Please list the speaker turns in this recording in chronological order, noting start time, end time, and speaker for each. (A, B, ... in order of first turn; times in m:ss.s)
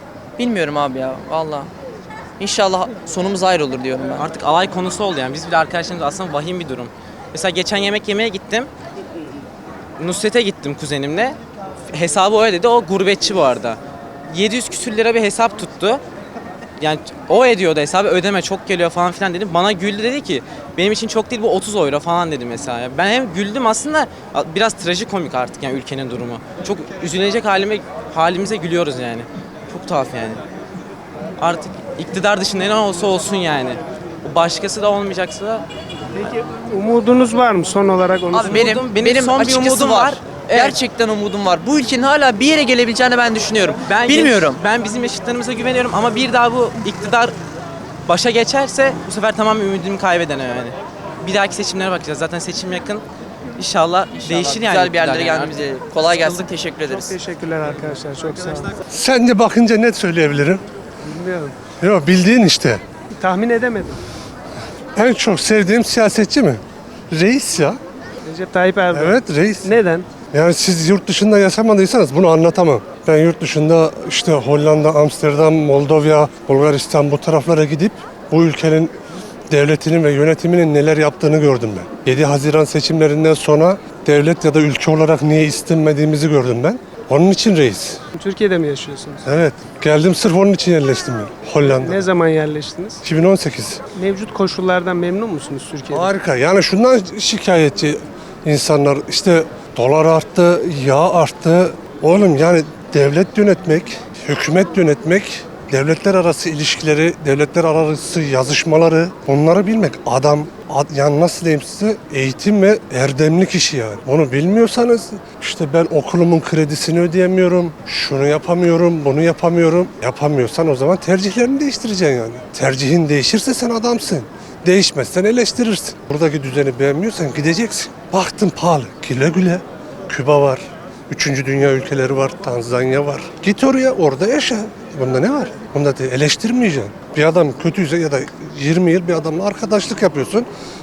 0:00.4-0:01.7 A
0:02.4-0:04.3 A
0:04.2-0:08.7 B
0:10.0-0:11.4 B
0:11.9-0:16.0 B
0:16.8-0:30.4 B
0:31.4-0:35.6 B
0:36.2-0:38.5 C
0:38.3-0:44.6 A
0:38.4-0:40.8 B
0:43.8-0:47.3 B
0:48.1-0:53.0 B
0:53.6-0:55.6 B
0:54.2-0:57.2 A
0:56.9-0:58.7 C
0:58.9-1:00.6 D
1:01.0-1:01.6 C
1:01.7-1:02.8 D
1:03.1-1:04.0 C
1:05.0-1:07.8 D
1:08.2-1:10.1 C
1:08.9-1:18.9 D
1:19.5-1:28.0 D
1:28.2-1:29.3 C
1:29.2-1:32.1 D
1:31.6-1:33.0 C
1:33.0-1:33.8 D
1:34.0-1:36.1 C
1:35.9-2:20.5 D